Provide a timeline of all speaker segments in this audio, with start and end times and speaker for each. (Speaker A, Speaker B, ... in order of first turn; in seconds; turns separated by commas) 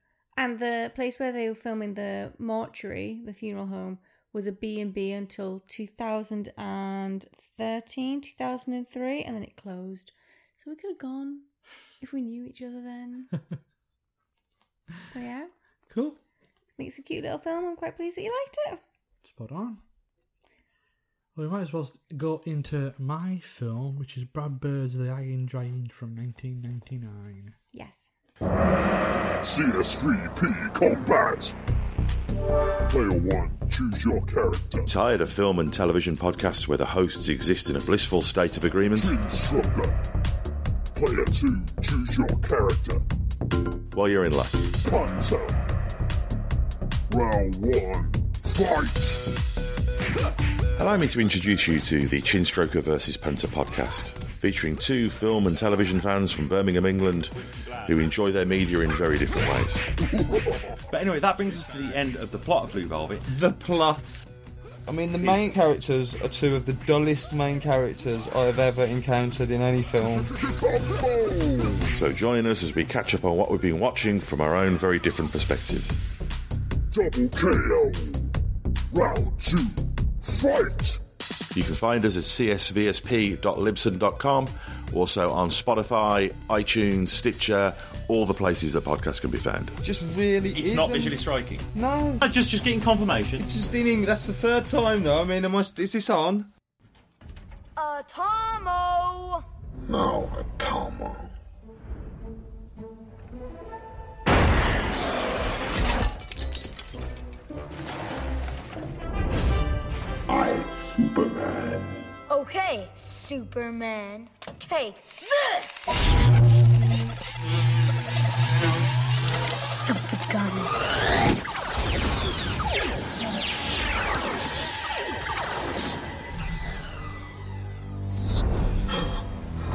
Speaker A: 0.4-11.5, Speaker A: 12.0-13.3, Speaker A: 15.1-15.5, Speaker B: 15.9-16.2, Speaker A: 16.8-18.8, Speaker B: 19.2-19.8, Speaker B: 21.3-27.5, Speaker A: 27.7-28.1, Speaker C: 29.4-31.6, Speaker C: 32.9-34.9, Speaker D: 34.9-39.1, Speaker C: 39.0-39.9, Speaker C: 40.9-43.0, Speaker D: 43.9-44.7, Speaker C: 44.8-45.6, Speaker C: 47.1-49.3, Speaker D: 50.8-57.3, Speaker D: 57.8-59.9, Speaker E: 60.9-63.2, Speaker F: 63.5-63.9, Speaker F: 64.9-70.2, Speaker C: 70.0-71.9, Speaker D: 71.9-76.0, Speaker C: 76.9-78.3, Speaker C: 78.9-81.0, Speaker D: 81.5-89.8, Speaker F: 90.0-91.1, Speaker E: 90.5-91.7, Speaker E: 92.2-93.5, Speaker F: 93.6-96.4, Speaker G: 97.8-99.4, Speaker C: 100.2-101.2, Speaker C: 111.2-111.6, Speaker G: 112.3-115.7, Speaker G: 119.9-120.7